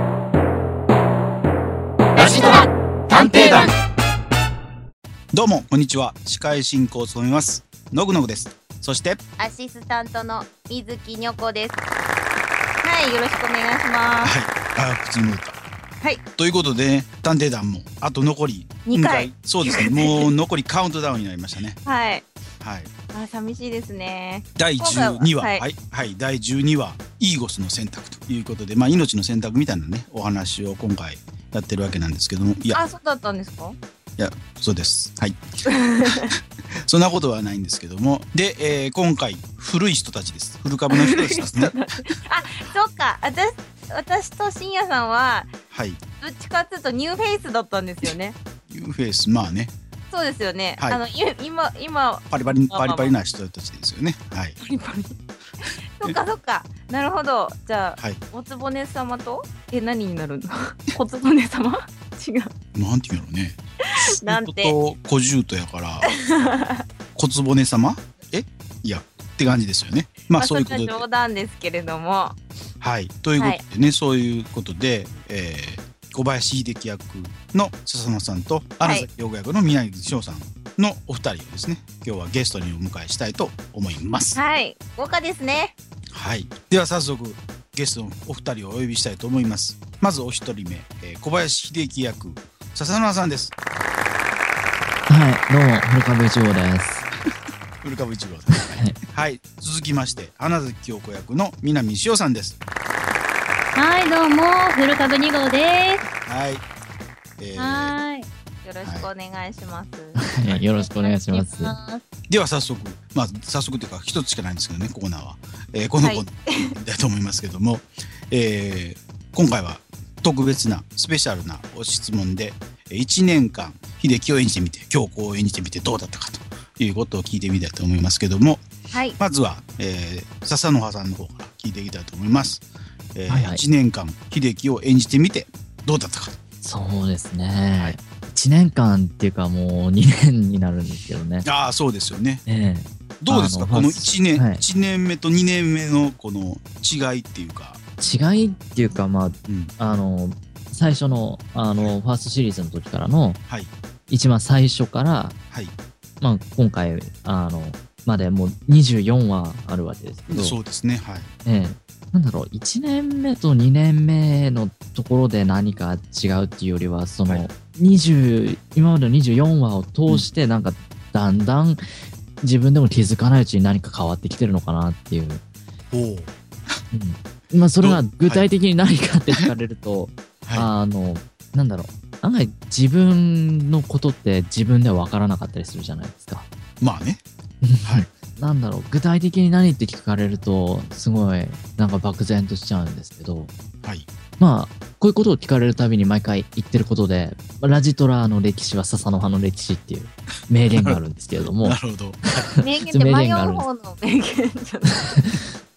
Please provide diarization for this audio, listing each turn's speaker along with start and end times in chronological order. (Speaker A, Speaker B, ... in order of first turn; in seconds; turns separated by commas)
Speaker A: 2.1-3.7, Speaker B: 3.1-3.7, Speaker A: 5.3-9.2, Speaker B: 9.4-11.8, Speaker B: 12.8-14.3, Speaker A: 14.2-15.6, Speaker A: 16.4-21.8, Speaker B: 18.9-20.3, Speaker B: 21.8-22.2, Speaker A: 22.6-22.9, Speaker B: 23.1-25.6, Speaker A: 24.6-32.8, Speaker B: 32.7-33.8, Speaker A: 34.2-35.4, Speaker B: 35.7-36.3, Speaker A: 36.0-41.8, Speaker B: 40.9-45.5, Speaker A: 45.7-46.0, Speaker B: 46.2-48.4, Speaker A: 48.7-49.7, Speaker B: 50.1-53.1, Speaker A: 52.3-54.6, Speaker B: 54.6-62.5, Speaker A: 62.7-63.6, Speaker B: 63.9-64.8, Speaker A: 64.2-66.1, Speaker B: 66.4-66.8, Speaker A: 67.1-71.0, Speaker B: 70.3-72.3, Speaker A: 72.8-84.4, Speaker B: 78.8-79.1, Speaker B: 84.3-85.7, Speaker A: 86.1-93.5, Speaker C: 95.1-97.1, Speaker A: 97.8-102.6, Speaker C: 98.5-99.0, Speaker D: 103.8-106.0, Speaker A: 106.2-106.7, Speaker A: 107.4-107.9, Speaker D: 107.6-108.3, Speaker B: 108.6-110.2, Speaker C: 110.2-111.8, Speaker D: 110.9-112.0, Speaker A: 112.3-128.6, Speaker B: 116.0-116.7, Speaker B: 128.9-129.2, Speaker A: 129.2-136.4, Speaker C: 133.3-133.6, Speaker C: 136.6-141.4, Speaker A: 141.4-142.4, Speaker C: 142.4-144.6, Speaker A: 143.2-147.8, Speaker C: 148.0-153.4, Speaker A: 149.5-149.7, Speaker C: 154.1-155.4, Speaker C: 156.2-160.6, Speaker A: 160.3-161.3, Speaker C: 161.4-171.8, Speaker C: 172.4-175.4, Speaker A: 175.9-176.8, Speaker C: 176.9-186.5, Speaker A: 177.8-178.4, Speaker A: 180.4-180.7, Speaker A: 186.8-187.2, Speaker C: 187.6-193.5, Speaker A: 193.8-194.1, Speaker C: 194.4-201.8, Speaker A: 201.6-202.5, Speaker B: 202.6-205.1, Speaker C: 202.9-203.6